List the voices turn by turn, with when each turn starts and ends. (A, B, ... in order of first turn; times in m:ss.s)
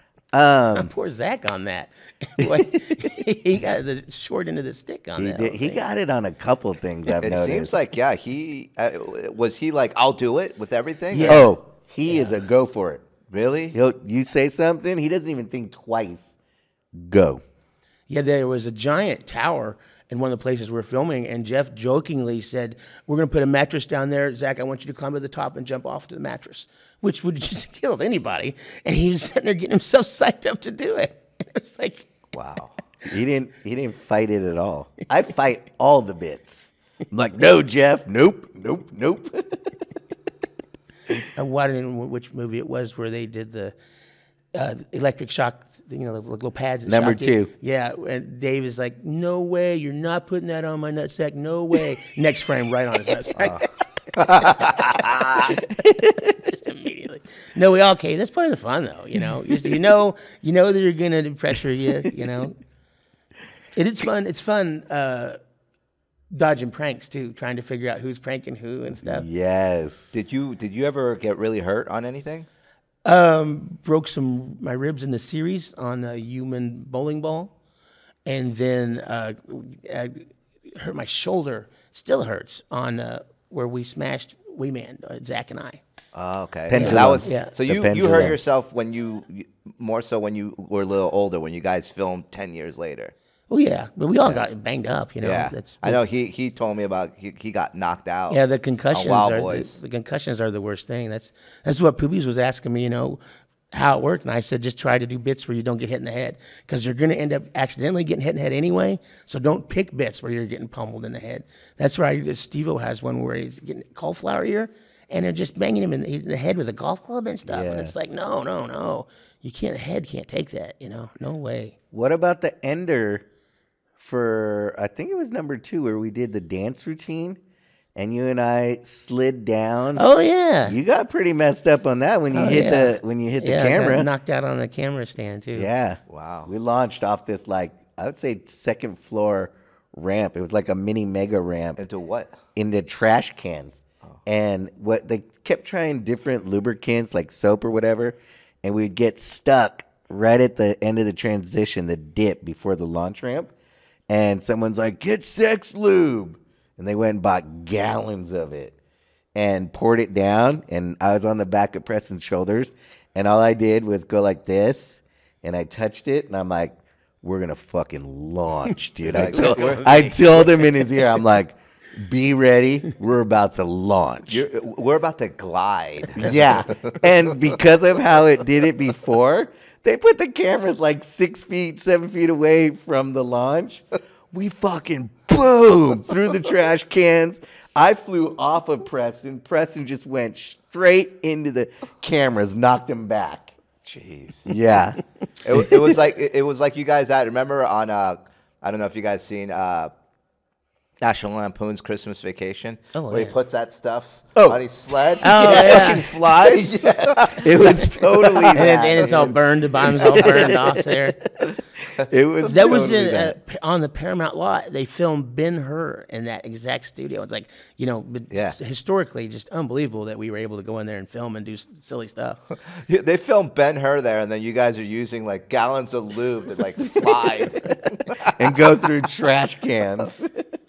0:00.3-0:00.9 A
0:00.7-0:05.8 B
0:02.4-0:03.0 A
0:05.2-0:07.8 A
0:07.2-0:11.5 C
0:11.1-0:11.5 B
0:11.2-0:13.0 A
0:12.1-0:12.3 B
0:13.3-0:13.7 C
0:13.7-0:16.3 A
0:16.9-0:17.4 A
0:18.1-0:32.1 B
0:32.3-0:32.8 C
0:33.0-0:39.8 A
0:41.3-0:43.7 B
0:44.5-0:53.7 B
0:46.8-0:47.5 A
0:53.4-0:53.6 C
0:54.1-0:55.5 C
0:54.4-1:02.6 B
0:55.7-0:56.2 A
1:03.7-1:05.4 B
1:06.3-1:09.2 B
1:09.0-1:10.3 A
1:10.1-1:12.5 C
1:13.0-1:17.5 B
1:18.2-1:25.8 B
1:26.1-1:33.1 C
1:26.7-1:28.4 A
1:26.8-1:27.5 B
1:33.5-1:36.0 B
1:35.2-1:38.4 C
1:38.3-1:43.2 B
1:38.9-1:39.8 C
1:43.7-2:01.7 B
1:57.5-1:57.9 A
2:01.9-2:03.2 A
2:04.0-2:07.4 A
2:08.0-2:10.0 A
2:10.0-2:10.8 B
2:10.6-2:14.1 A
2:12.3-2:15.7 B
2:15.5-2:21.8 A
2:16.1-2:16.5 C
2:21.8-2:22.3 C
2:22.5-2:33.5 A
2:34.1-2:38.8 A
2:39.3-2:54.4 A
2:49.0-2:50.1 C
2:49.1-2:51.0 B
2:54.3-2:57.0 C
2:56.2-3:13.5 A
3:13.8-3:14.5 C
3:14.4-3:15.0 A
3:15.4-3:19.9 C
3:21.0-3:29.2 C
3:22.9-3:23.4 B
3:24.4-3:24.6 A
3:25.2-3:26.7 A
3:25.2-3:26.1 B
3:27.3-3:33.4 A
3:28.5-3:31.2 B
3:30.1-3:30.5 C
3:32.4-3:42.4 B
3:38.3-3:38.6 C
3:42.6-3:48.5 C
3:46.5-3:50.3 A